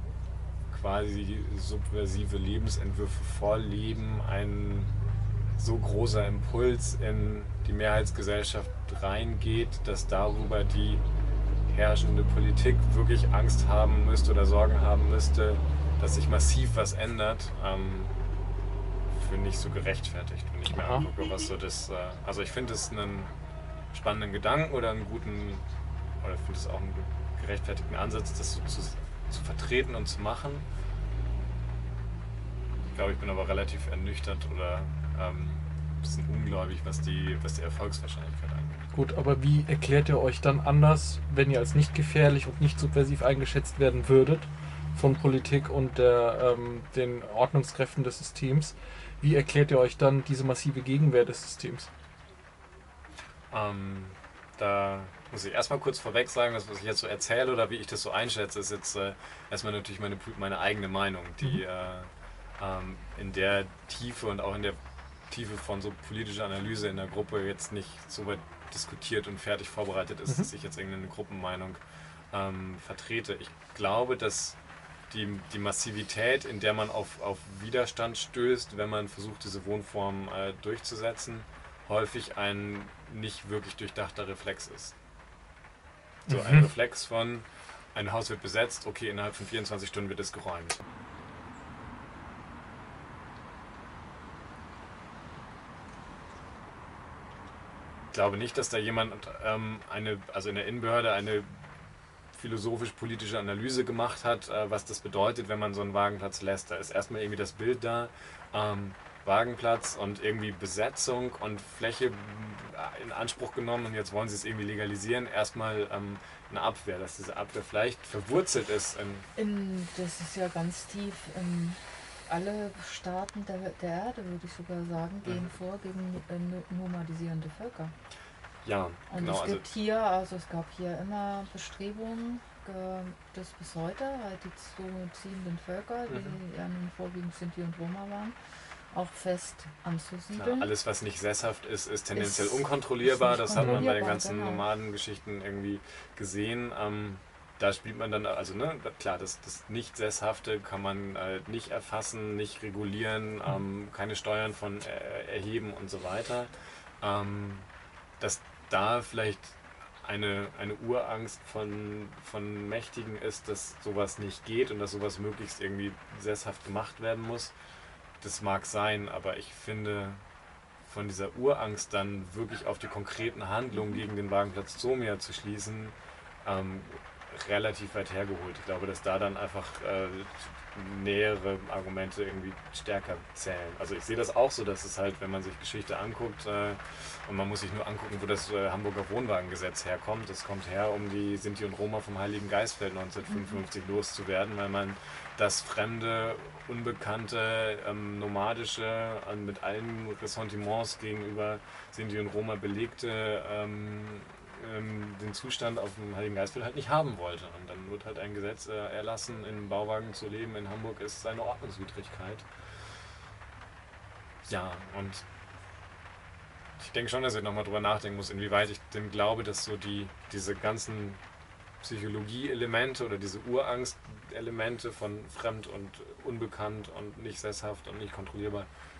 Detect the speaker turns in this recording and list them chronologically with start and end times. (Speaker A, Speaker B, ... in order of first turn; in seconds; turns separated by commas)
Speaker A: 0.7-4.9, Speaker A: 5.6-11.0, Speaker A: 11.7-18.1, Speaker A: 19.1-23.3, Speaker B: 20.7-21.0, Speaker A: 23.9-25.6, Speaker A: 26.2-30.7, Speaker A: 32.9-38.9, Speaker B: 38.9-51.9, Speaker A: 53.5-64.8, Speaker A: 65.3-71.8, Speaker A: 72.3-74.6, Speaker A: 75.1-85.0, Speaker A: 86.3-90.8, Speaker B: 86.3-86.7, Speaker A: 98.1-101.7, Speaker A: 102.3-119.3, Speaker C: 119.3-127.9, Speaker A: 125.2-125.5, Speaker A: 128.6-129.7, Speaker C: 129.1-138.4, Speaker A: 136.1-136.4, Speaker C: 138.9-140.7, Speaker A: 140.3-157.7, Speaker C: 142.1-144.6, Speaker B: 143.5-143.8, Speaker A: 158.2-167.5, Speaker A: 168.2-170.2, Speaker A: 170.8-212.5, Speaker C: 193.3-193.6, Speaker A: 214.4-215.2, Speaker A: 216.8-221.2, Speaker A: 221.8-228.7